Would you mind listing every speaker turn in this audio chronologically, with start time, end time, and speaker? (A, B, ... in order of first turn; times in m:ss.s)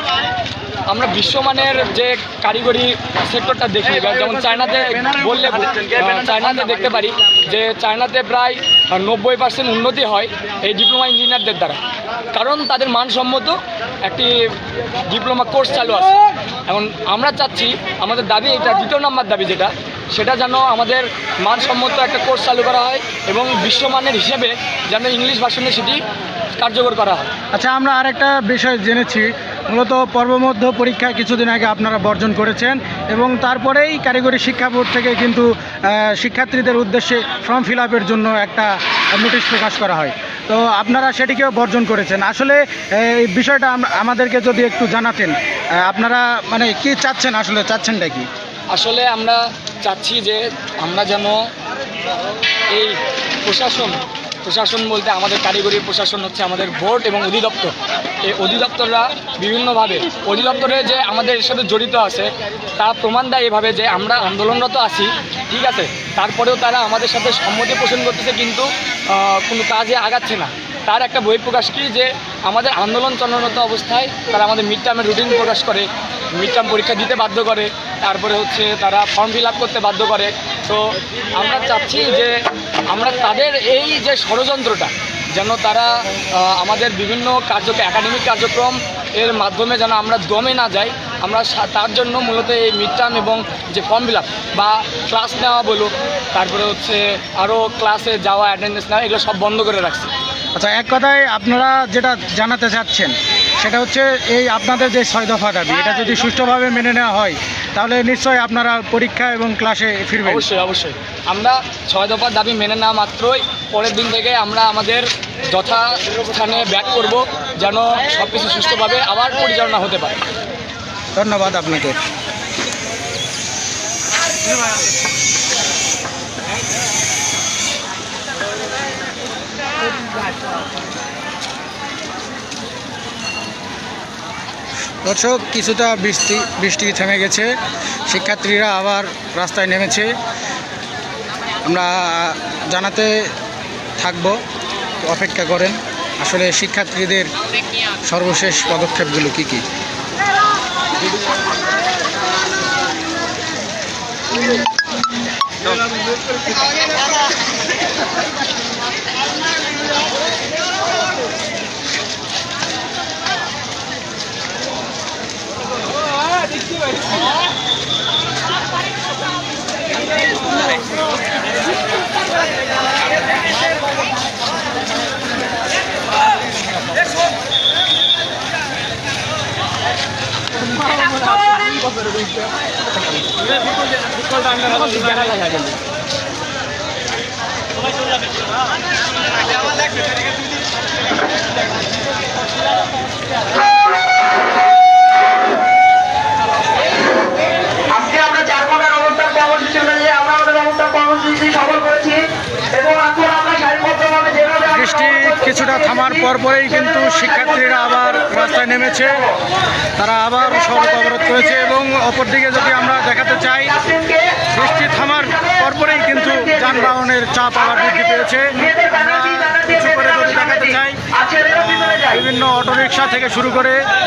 0:00.9-0:11.8 A
0:12.3-0:14.5 A
0:15.0-0:26.0 A
0:26.6-0:27.3 A
0:27.5-0:48.3 B
0:48.7-0:51.4 A
0:52.7-0:57.7 A
0:58.2-1:22.4 A
1:22.9-1:40.1 A
1:40.6-1:50.4 B
1:50.3-2:00.2 A
2:01.2-2:02.0 B
2:15.0-2:17.5 B
2:18.1-2:20.1 B
2:21.6-2:23.3 B
2:24.0-2:24.4 B
2:25.0-2:27.3 B
2:28.0-2:29.6 B
3:04.3-3:05.8 A
3:17.9-3:26.0 C
3:24.6-3:29.2 B
3:30.0-3:33.8 B
3:34.0-3:34.4 C
3:34.5-3:43.9 B
3:38.6-3:41.8 C